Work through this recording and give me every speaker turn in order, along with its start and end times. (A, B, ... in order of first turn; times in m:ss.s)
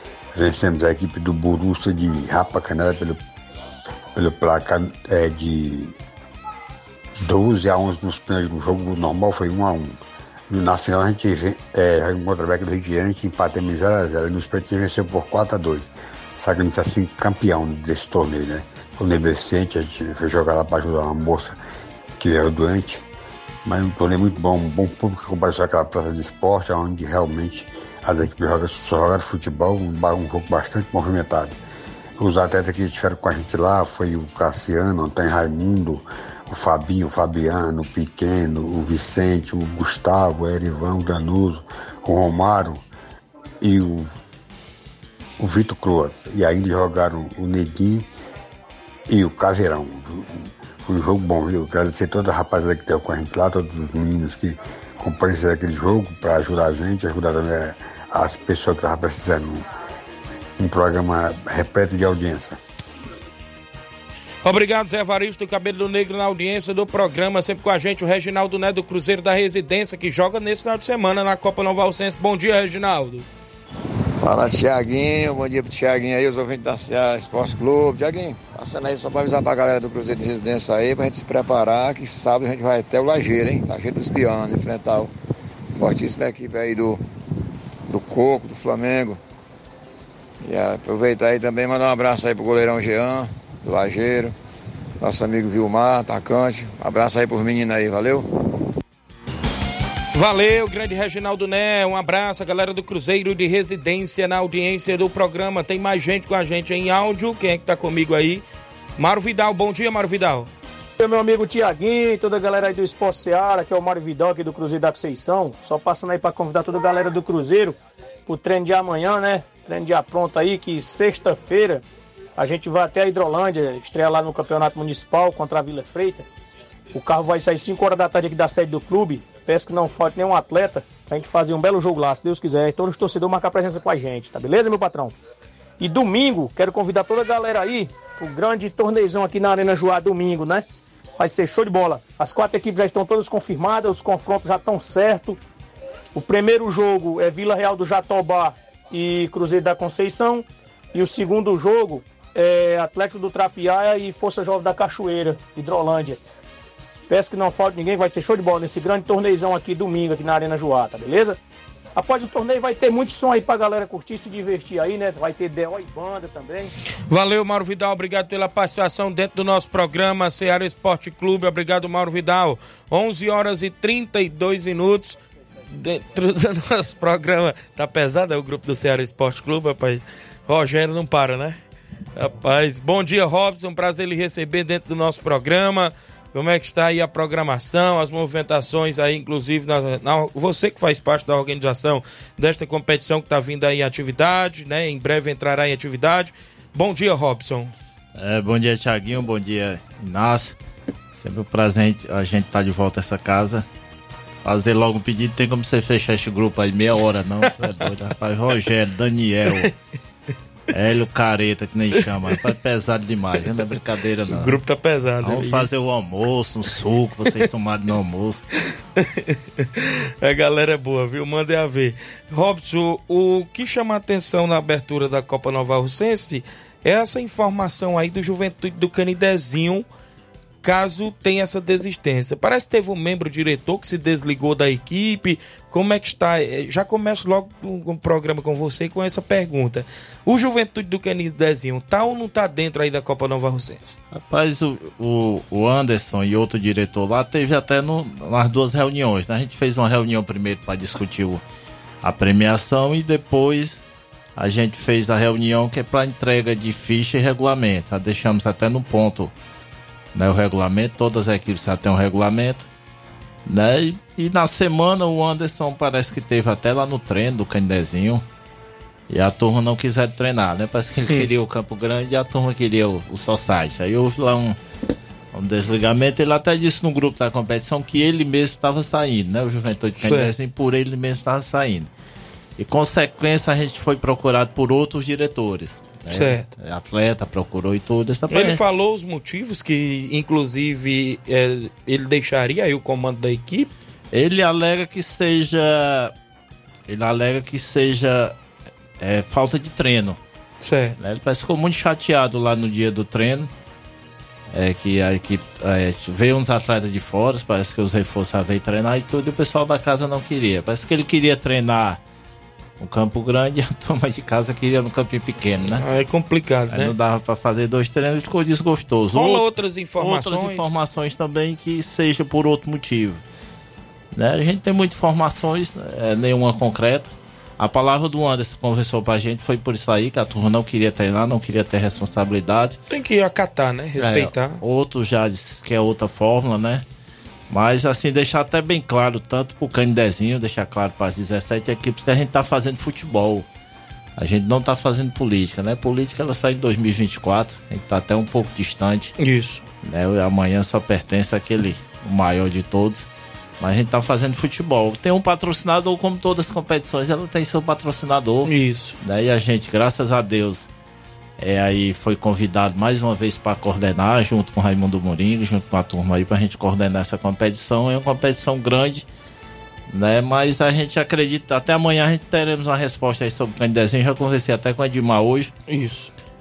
0:00.4-0:03.2 A
0:04.1-0:05.9 A
0:07.2-0:10.0 A
0:10.5-0:21.6 A
0:22.2-0:23.0 A
0:23.6-0:31.6 A
0:32.2-0:42.8 A
0:43.6-0:44.1 A
0:45.4-0:48.1 A
0:49.1-0:59.6 A
1:00.6-1:02.6 A
1:04.4-1:13.2 B
1:14.2-1:25.1 C
1:25.8-1:27.0 C
1:27.9-1:29.2 C
1:30.4-1:34.3 C
1:35.0-1:38.3 C
1:40.1-1:48.4 B
1:49.0-1:50.5 B
1:51.0-2:01.8 D
2:02.4-2:06.3 D
2:06.9-2:15.1 D
2:15.8-2:20.6 D
2:21.2-2:25.4 D
2:26.1-2:36.2 D
2:37.1-2:41.4 D
2:42.0-2:46.7 D
2:47.1-2:55.2 B
2:55.7-3:01.6 B
3:02.1-3:17.7 B
3:18.2-3:20.6 E
3:21.1-3:23.6 E
3:24.4-3:29.7 E
3:30.7-3:34.6 E
3:34.3-3:35.7 B
3:35.2-3:38.4 E
3:39.0-3:49.8 B
3:50.6-4:04.0 B
4:04.1-4:11.4 E
4:12.0-4:13.8 E
4:14.4-4:19.3 E
4:20.1-4:22.7 E
4:23.4-4:28.2 E
4:29.1-4:34.6 E
4:35.3-4:41.9 E
4:40.0-4:40.3 B
4:42.6-4:48.6 E
4:46.1-4:46.5 B
4:48.3-4:53.7 B
4:54.1-4:56.1 E
4:56.9-4:58.4 E
4:59.0-5:00.2 E
5:00.6-5:01.0 B
5:01.0-5:03.5 E
5:04.5-5:12.0 E
5:12.8-5:15.8 E
5:15.7-5:16.9 B
5:16.7-5:23.2 E
5:19.1-5:20.7 B
5:24.1-5:32.8 E
5:32.9-5:34.6 B
5:34.0-5:36.8 E
5:37.5-5:43.4 E
5:44.2-5:49.1 E
5:49.2-5:49.6 B
5:49.8-5:53.1 E
5:53.6-6:00.7 E
5:58.4-5:59.0 B
6:01.4-6:09.0 E
6:09.9-6:15.5 E
6:15.7-6:16.1 B